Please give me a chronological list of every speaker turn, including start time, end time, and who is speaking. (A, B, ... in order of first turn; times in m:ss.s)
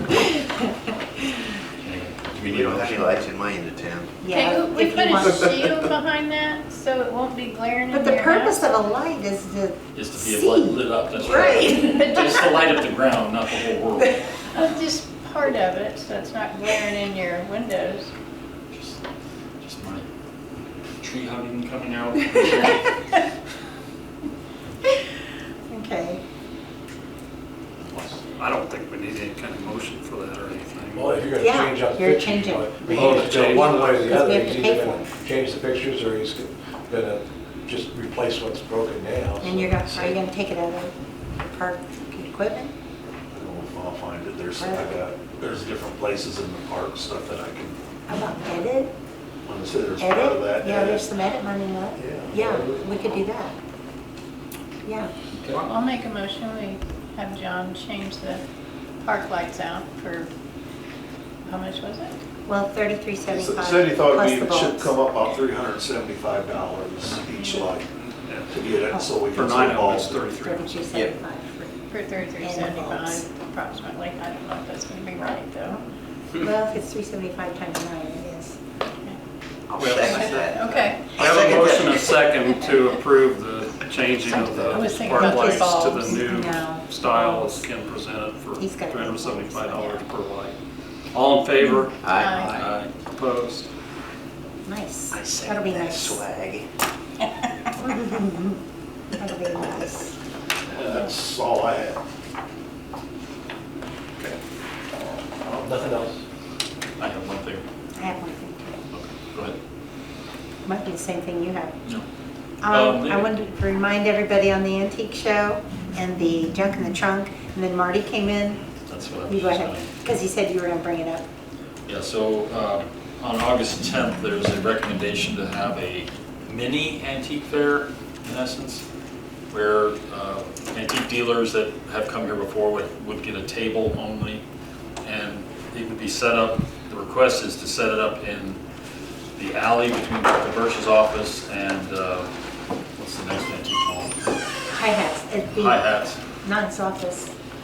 0:01.8-0:03.3 A
0:02.4-0:04.1 B
0:04.2-0:05.5 C
0:04.3-0:08.7 D
0:07.9-0:12.1 C
0:09.9-0:14.2 A
0:11.8-0:12.5 D
0:14.5-0:18.1 D
0:18.7-0:19.0 A
0:19.6-0:20.0 A
0:21.0-0:23.0 A
0:25.7-0:26.2 C
0:27.8-0:28.2 A
0:28.4-0:31.2 E
0:30.9-0:40.1 F
0:31.4-0:35.1 C
0:32.9-0:33.7 E
0:39.4-0:42.7 C
0:43.3-0:47.8 G
0:44.6-0:45.0 C
0:48.1-0:48.9 C
0:49.5-0:51.1 G
0:50.0-0:53.6 C
0:52.0-0:52.4 G
0:52.3-0:52.8 F
0:54.8-0:55.1 C
0:55.3-0:55.7 A
0:55.6-0:58.4 D
0:59.0-1:00.3 D
1:01.5-1:02.2 D
1:02.5-1:04.9 C
1:03.3-1:07.9 G
1:07.4-1:07.8 D
1:08.5-1:10.2 G
1:09.3-1:10.5 E
1:10.3-1:13.3 C
1:11.9-1:15.8 D
1:16.3-1:18.6 C
1:18.9-1:19.2 D
1:19.7-1:21.9 B
1:19.8-1:20.1 E
1:20.1-1:21.8 D
1:21.2-1:30.6 E
1:24.3-1:26.1 D
1:25.2-1:27.7 C
1:28.6-1:30.0 C
1:31.1-1:31.9 E
1:31.6-1:32.6 D
1:32.0-1:32.6 B
1:32.5-1:32.9 A
1:32.5-1:33.7 E
1:34.7-1:36.2 C
1:35.1-1:36.7 B
1:37.8-1:38.6 C
1:39.1-1:40.2 C
1:40.7-1:42.0 G
1:45.5-1:46.2 F
1:47.0-1:47.6 A
1:47.9-1:48.8 C
1:48.9-1:49.6 A
1:50.7-1:51.8 C
1:52.6-1:58.7 C
1:52.7-1:53.5 A
1:58.9-1:59.9 A
1:59.2-2:01.2 C
2:01.9-2:08.8 A
2:09.5-2:14.4 A
2:15.0-2:18.6 A
2:19.4-2:22.3 A
2:23.0-2:24.1 A
2:24.7-2:25.9 C
2:25.6-2:26.2 A
2:26.4-2:27.3 C